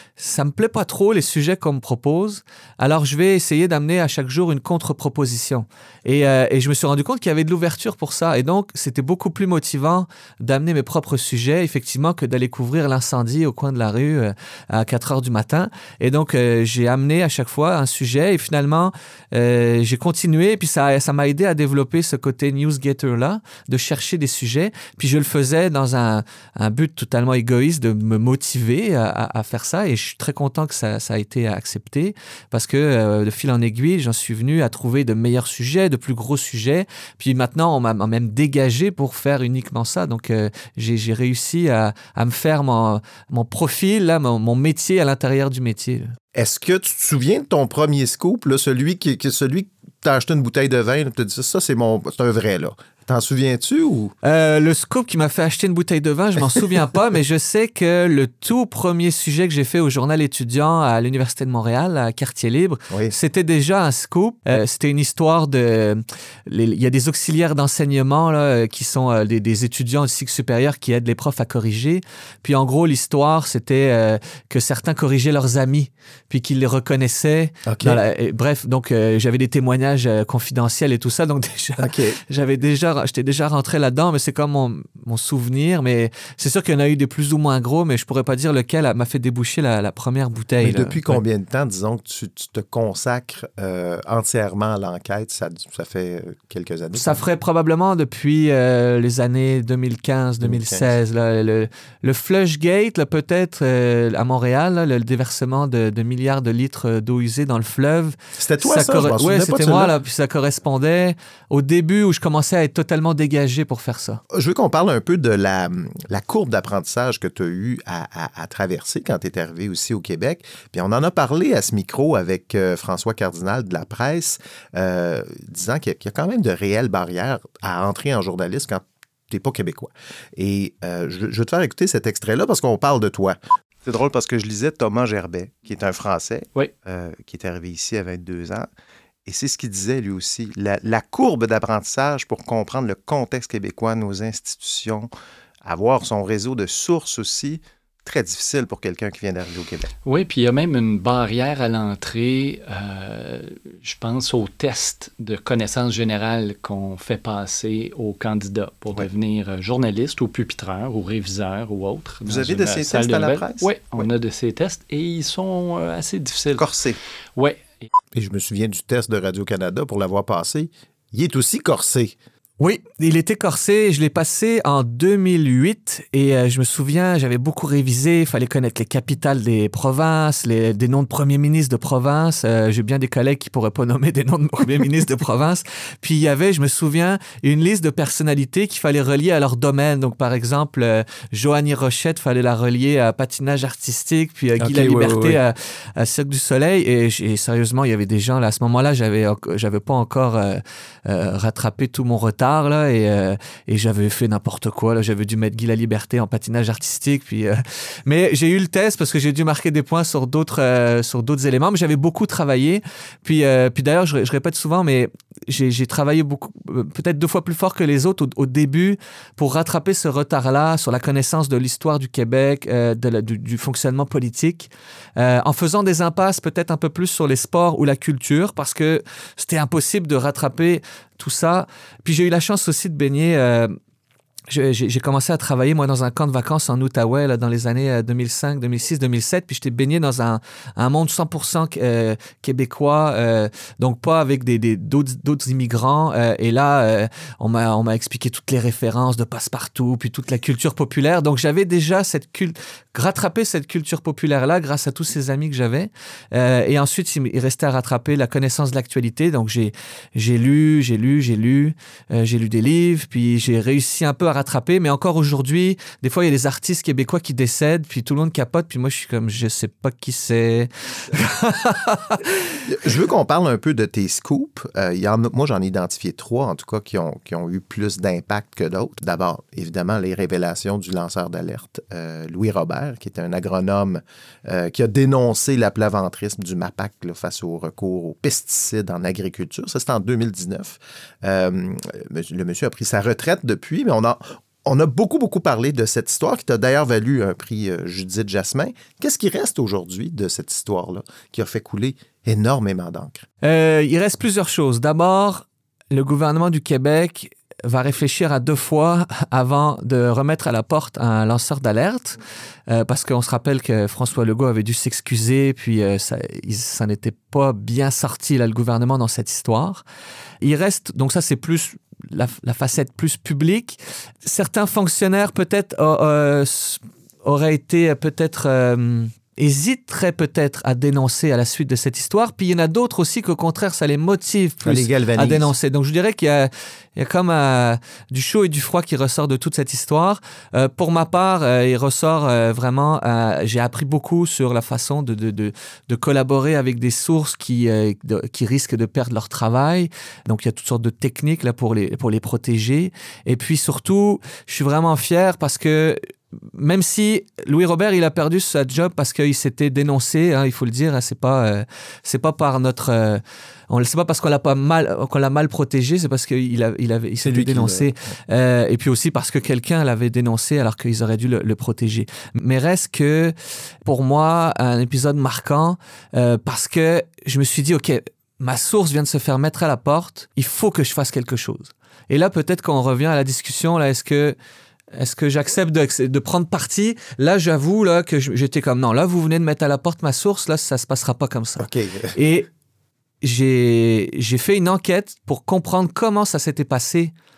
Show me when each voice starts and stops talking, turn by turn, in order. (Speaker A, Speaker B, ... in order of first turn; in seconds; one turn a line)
Speaker A: 0.2-46.1
Speaker B: 46.3-54.1
Speaker A: 54.2-91.2
Speaker B: 77.7-78.0
Speaker B: 81.8-82.2
Speaker B: 90.6-97.2
Speaker A: 96.9-114.2
Speaker B: 100.4-101.0
Speaker B: 108.4-109.9
Speaker B: 114.3-138.7
Speaker B: 139.3-145.1
Speaker B: 145.6-149.9
Speaker C: 150.1-166.8
Speaker B: 162.2-164.1
Speaker B: 166.5-167.0
Speaker C: 167.4-167.9
Speaker B: 168.1-172.2
Speaker A: 172.6-233.7
Speaker B: 194.6-195.4
Speaker A: 234.5-272.2
Speaker B: 272.7-303.3
Speaker A: 303.4-312.2
Speaker A: 312.7-319.8
Speaker A: 320.4-356.0
Speaker B: 334.6-335.5
Speaker A: 356.5-384.4
Speaker B: 367.2-367.9
Speaker A: 384.9-392.5
Speaker B: 391.6-392.2
Speaker A: 393.2-397.1